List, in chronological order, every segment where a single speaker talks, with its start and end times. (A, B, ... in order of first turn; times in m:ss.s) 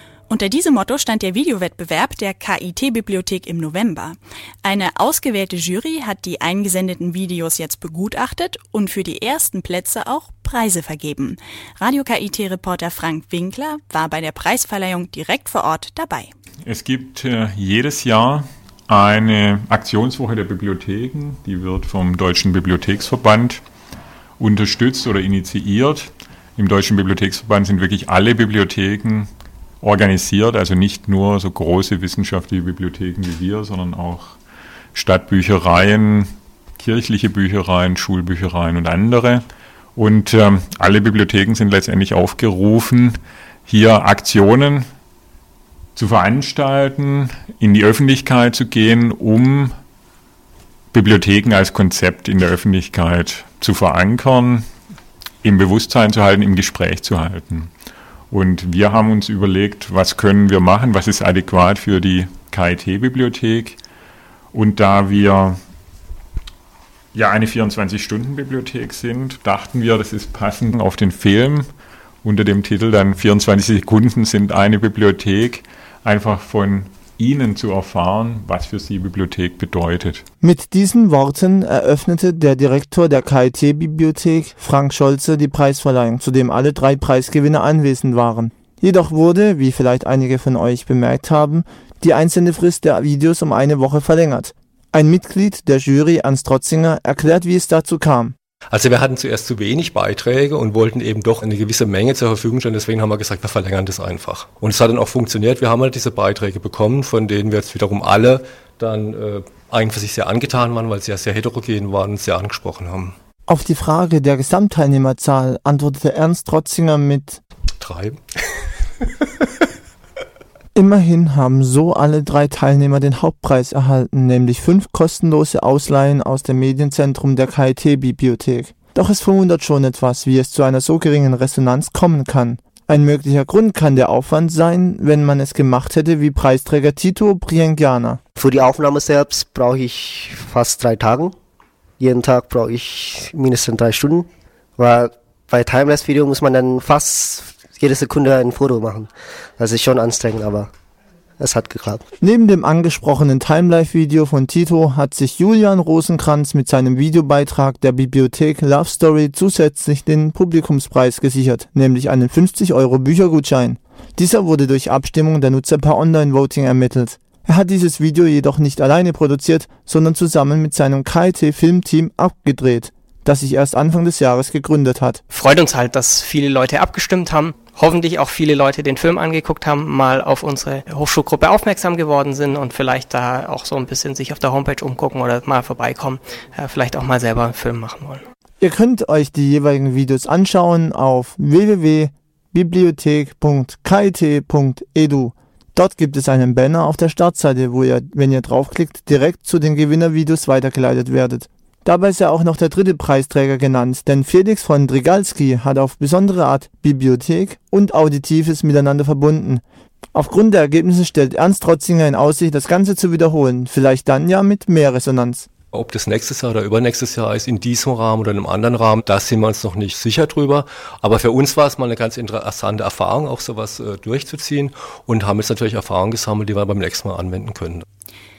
0:00.3-0:16.3 A
0:16.7-0:23.6 B
0:24.4-0:29.3 B
0:29.8-0:34.4 B
0:35.0-0:39.4 B
0:40.0-0:44.8 B
0:46.0-0:49.7 B
0:50.9-0:54.6 B
0:55.4-0:57.7 B
0:58.3-1:03.8 B
1:04.5-1:05.6 B
1:07.2-1:11.7 B
1:12.2-1:20.2 B
1:20.4-1:38.3 C
1:38.7-1:53.1 D
1:53.5-1:57.4 C
1:57.8-1:59.4 D
2:00.8-2:18.2 C
2:18.4-2:21.4 E
2:22.0-2:30.7 E
2:31.4-2:32.0 E
2:32.2-2:55.2 C
2:55.3-3:08.2 F
3:08.6-3:29.6 C
3:30.2-3:35.5 C
3:35.7-3:47.8 D